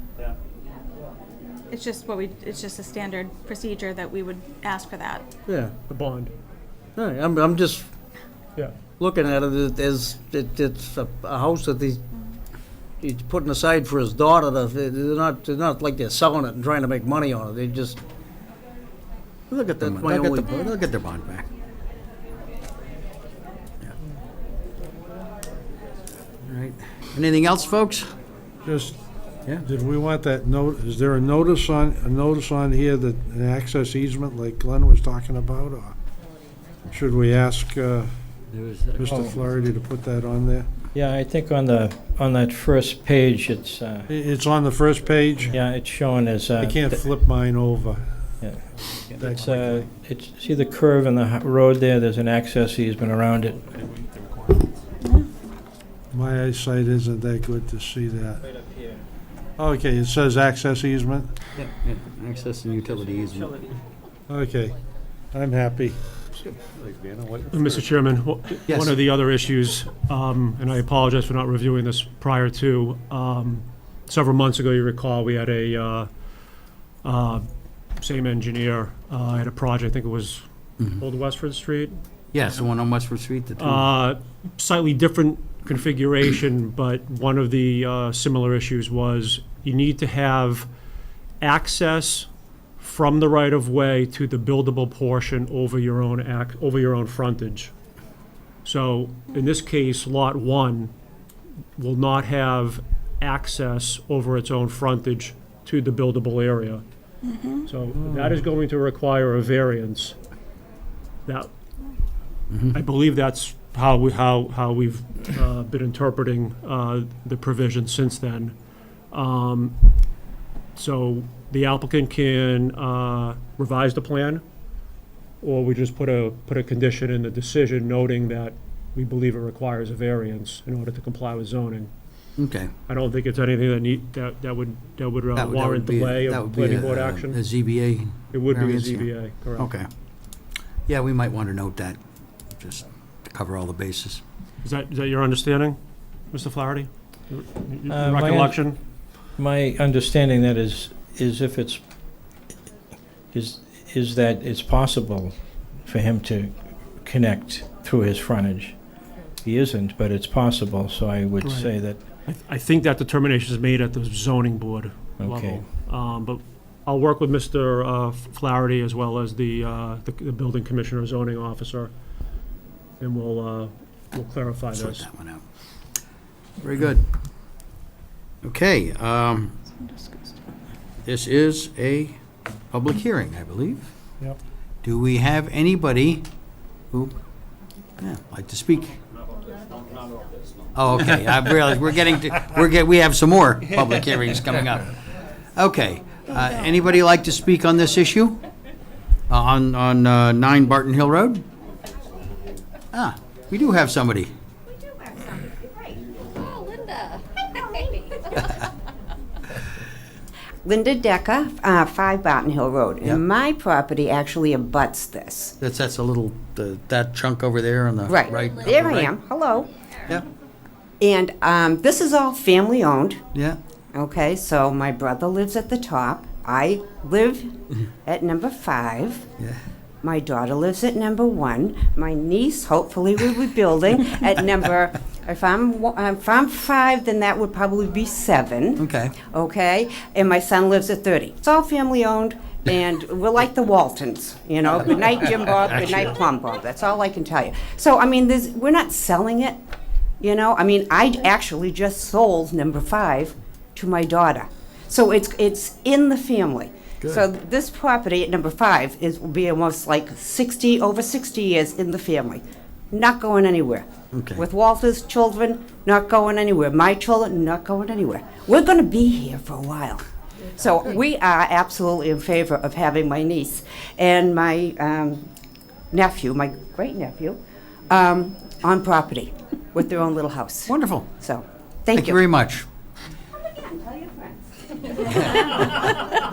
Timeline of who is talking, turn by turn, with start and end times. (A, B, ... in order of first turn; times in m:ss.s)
0:01.7-0:05.3 A
0:05.5-0:05.7 B
0:05.9-0:06.3 C
0:07.0-0:07.9 B
0:09.0-0:12.0 B
0:13.0-0:18.0 B
0:19.5-0:21.5 D
0:19.5-0:20.5 B
0:26.4-0:28.1 D
0:28.6-0:29.0 E
0:29.6-0:35.9 E
0:36.9-0:38.1 E
0:38.6-0:38.9 D
0:38.9-0:40.7 E
0:39.1-0:39.3 F
0:40.9-0:44.1 F
0:44.1-0:45.6 E
0:45.4-0:47.0 F
0:46.6-0:48.0 E
0:48.4-0:53.7 F
0:49.2-0:49.6 E
0:56.1-0:58.4 E
0:59.6-1:01.3 E
1:01.6-1:03.6 D
1:04.3-1:04.8 E
1:05.3-1:06.0 E
1:07.5-1:16.1 C
1:08.7-1:08.9 D
1:17.0-1:17.4 C
1:18.0-1:21.9 C
1:22.3-1:23.8 D
1:23.6-1:30.7 C
1:31.4-1:32.3 C
1:32.8-1:37.7 C
1:38.6-1:40.9 C
1:41.8-1:46.8 C
1:47.3-1:47.6 A
1:47.6-1:50.2 C
1:52.7-1:58.5 C
1:59.1-1:59.7 C
2:00.7-2:04.4 C
2:05.4-2:11.9 C
2:12.4-2:12.7 D
2:12.9-2:17.4 C
2:15.4-2:19.9 D
2:18.3-2:19.7 C
2:20.9-2:22.0 D
2:22.6-2:24.2 D
2:24.6-2:25.8 C
2:26.3-2:28.8 C
2:27.9-2:28.6 F
2:29.4-2:31.8 F
2:33.3-2:38.8 F
2:39.4-2:42.0 F
2:41.4-2:41.7 C
2:42.2-2:51.9 C
2:45.2-2:45.6 F
2:53.0-2:55.0 C
2:54.7-2:55.4 D
2:56.6-2:57.1 D
2:58.4-2:59.5 D
2:59.8-3:00.4 A
3:01.0-3:02.2 D
3:02.7-3:03.9 D
3:04.8-3:06.2 D
3:08.0-3:09.0 D
3:10.7-3:14.9 D
3:15.6-3:18.4 D
3:19.3-3:21.4 D
3:22.9-3:24.3 D
3:30.6-3:35.6 G
3:35.6-3:39.1 D
3:38.0-3:39.7 G
3:41.0-3:43.2 G
3:43.9-3:47.5 G
3:48.0-3:49.2 G
3:50.0-4:09.6 G
3:58.8-3:59.2 D
4:05.6-4:06.1 D
4:10.2-4:30.0 G
4:24.1-4:24.4 D
4:30.6-4:35.3 G
4:35.9-4:37.4 G
4:37.9-4:42.2 G
4:40.6-4:41.1 D
4:41.9-4:42.6 D
4:43.6-4:44.4 G
4:44.9-4:45.5 G
4:45.2-4:45.4 D